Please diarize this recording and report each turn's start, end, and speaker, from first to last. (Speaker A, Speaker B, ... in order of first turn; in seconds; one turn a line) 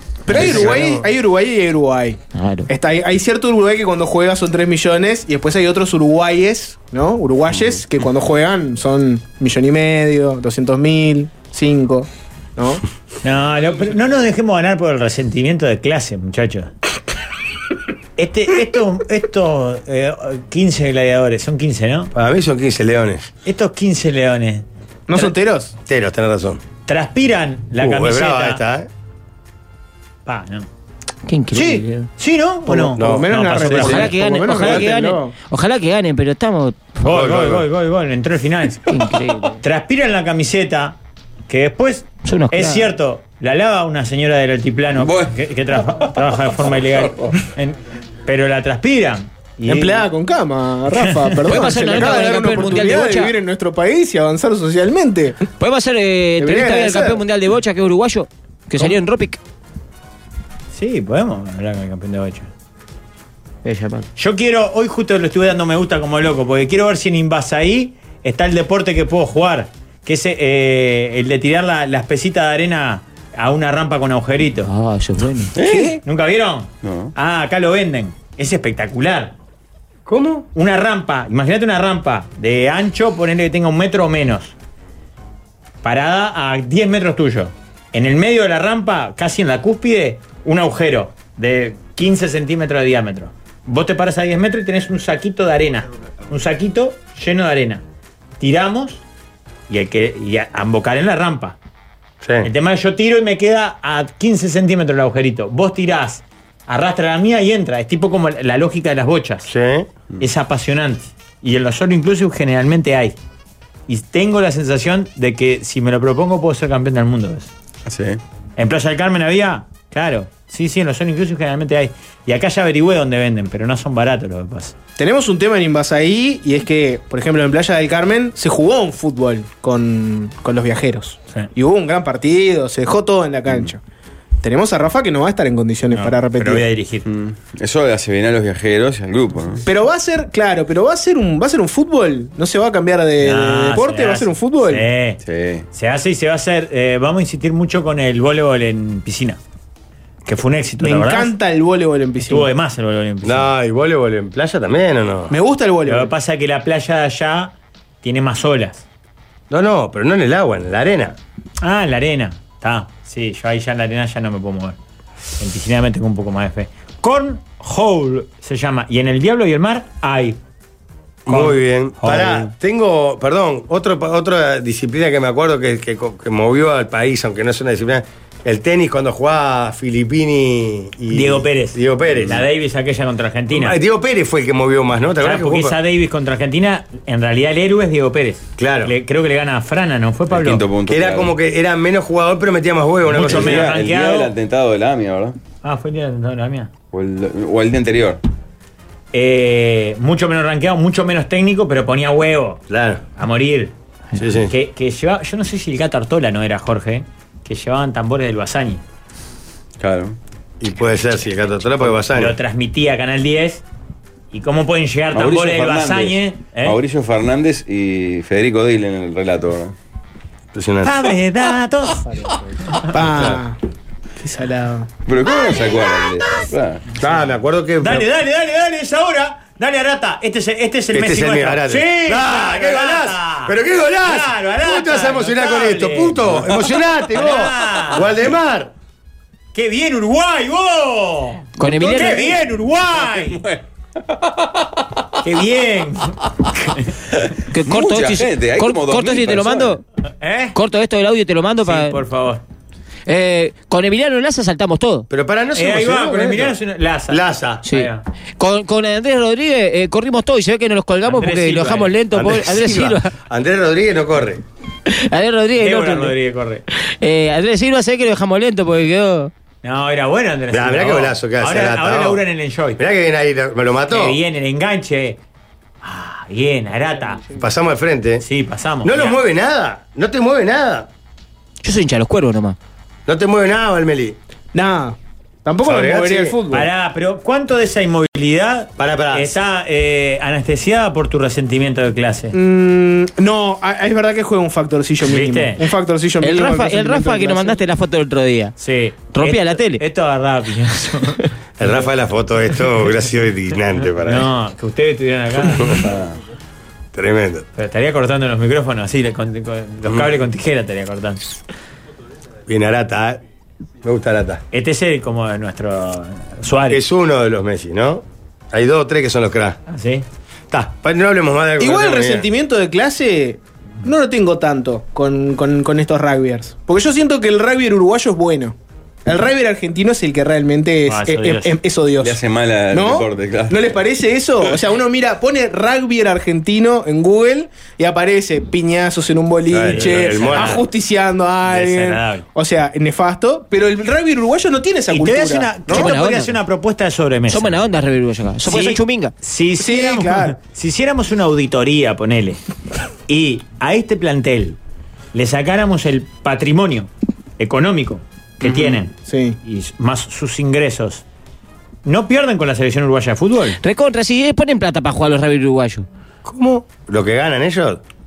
Speaker A: 0.3-12.8
Speaker B: 0.3-1.1
Speaker C: 2.3-2.7
Speaker D: 13.2-16.7
Speaker D: 18.2-22.1
Speaker B: 22.1-23.3
Speaker D: 23.4-25.3
Speaker A: 25.1-25.7
Speaker B: 25.9-26.6
Speaker D: 26.9-28.6
Speaker B: 27.8-28.9
Speaker D: 30.3-30.6
Speaker C: 31.3-32.1
Speaker A: 31.5-31.8
Speaker D: 32.2-34.8
Speaker A: 32.7-35.4
Speaker B: 32.9-33.3
Speaker C: 33.7-37.0
Speaker D: 37.0-39.0
Speaker B: 37.0-37.6
Speaker C: 38.9-39.6
Speaker D: 39.6-41.0
Speaker D: 41.5-50.1
Speaker C: 42.2-42.9
Speaker E: 45.0-47.4
Speaker A: 49.6-55.5
Speaker D: 50.9-51.6
Speaker C: 51.5-53.3
Speaker C: 55.6-59.4
Speaker A: 56.4-57.2
Speaker D: 60.7-62.5
Speaker C: 63.6-64.1
Speaker D: 64.2-74.7
Speaker C: 74.6-75.8
Speaker E: 75.5-76.0
Speaker D: 76.0-79.3
Speaker E: 76.8-77.1
Speaker B: 80.1-80.5
Speaker D: 80.5-84.5
Speaker D: 85.8-97.8
Speaker D: 98.4-99.0
Speaker D: 99.7-101.6
Speaker B: 102.2-102.5
Speaker D: 102.4-109.5
Speaker B: 109.5-109.9
Speaker D: 110.2-113.2
Speaker D: 113.9-117.5
Speaker E: 117.9-118.2
Speaker D: 118.6-124.7
Speaker A: 125.0-133.8
Speaker A: 134.4-136.6
Speaker D: 135.9-137.1
Speaker E: 137.1-139.6
Speaker A: 139.7-144.9
Speaker D: 143.2-145.2
Speaker E: 145.2-145.7
Speaker D: 145.7-149.4
Speaker D: 150.3-151.3
Speaker A: 150.8-152.5
Speaker D: 152.2-153.5
Speaker B: 153.2-155.3
Speaker A: 155.3-156.1
Speaker D: 155.9-158.8
Speaker B: 159.5-161.2
Speaker D: 161.6-164.8
Speaker D: 165.4-170.4
Speaker B: 171.3-182.4
Speaker D: 171.3-172.5
Speaker D: 181.1-183.8
Speaker B: 183.5-185.8
Speaker D: 185.2-190.6
Speaker B: 188.6-188.9
Speaker E: 190.3-191.3
Speaker B: 190.9-193.7
Speaker D: 193.1-194.3
Speaker E: 193.1-195.4
Speaker D: 195.6-196.7
Speaker E: 196.9-198.2
Speaker D: 199.1-202.6
Speaker B: 202.7-203.0
Speaker D: 203.2-203.7
Speaker B: 204.2-204.5
Speaker D: 204.5-208.8
Speaker E: 209.8-210.2
Speaker B: 210.6-212.4
Speaker D: 212.0-213.6
Speaker D: 214.3-216.8
Speaker E: 215.1-219.7
Speaker B: 220.5-220.9
Speaker D: 220.8-222.1
Speaker A: 222.8-223.6
Speaker B: 223.1-223.4
Speaker A: 224.2-224.9
Speaker E: 225.1-226.8
Speaker B: 227.0-228.1
Speaker D: 227.8-233.5
Speaker B: 230.9-238.7
Speaker D: 234.1-236.5
Speaker D: 237.1-238.1
Speaker D: 239.5-243.4
Speaker C: 241.6-242.4
Speaker E: 243.1-245.0
Speaker D: 245.2-246.9
Speaker C: 247.5-249.8
Speaker E: 247.6-249.8
Speaker D: 250.2-250.6
Speaker C: 250.6-252.0
Speaker D: 251.6-252.4
Speaker C: 253.1-255.1
Speaker B: 255.1-256.6
Speaker D: 255.6-258.0
Speaker B: 257.1-257.6
Speaker C: 257.6-263.1
Speaker D: 261.1-261.9
Speaker B: 262.1-264.4
Speaker C: 264.9-266.1
Speaker D: 265.6-266.6
Speaker C: 266.7-269.3
Speaker D: 269.6-272.8
Speaker B: 270.5-272.2
Speaker B: 272.8-274.2
Speaker D: 273.9-275.2
Speaker D: 275.8-277.2
Speaker B: 277.4-278.2
Speaker D: 278.2-279.2
Speaker B: 278.8-280.9
Speaker C: 281.6-282.6
Speaker B: 283.1-284.2
Speaker A: 284.5-286.7
Speaker B: 285.6-286.4
Speaker D: 286.5-292.4
Speaker B: 288.8-289.4
Speaker A: 292.3-297.6
Speaker D: 295.0-295.6
Speaker C: 296.2-298.6
Speaker D: 298.6-301.2
Speaker C: 299.1-299.8
Speaker B: 301.6-304.3
Speaker D: 304.0-305.9
Speaker B: 305.5-305.7
Speaker E: 305.7-306.1
Speaker B: 306.9-307.4
Speaker D: 307.6-311.2
Speaker B: 312.5-313.2
Speaker B: 313.8-314.4
Speaker D: 314.5-316.8
Speaker B: 316.7-319.6
Speaker D: 319.7-320.1
Speaker B: 320.5-322.3
Speaker A: 321.6-332.2
Speaker D: 330.9-331.6
Speaker E: 332.0-333.8
Speaker A: 332.7-345.9
Speaker B: 339.5-340.6
Speaker D: 339.7-340.6
Speaker D: 341.5-342.2
Speaker D: 344.9-347.6
Speaker C: 345.7-346.4
Speaker C: 347.3-349.1
Speaker D: 348.4-352.4
Speaker A: 349.6-350.4
Speaker D: 353.1-354.6
Speaker D: 355.1-361.0
Speaker A: 358.4-359.4
Speaker D: 361.9-363.6
Speaker C: 363.5-365.9
Speaker B: 366.2-367.8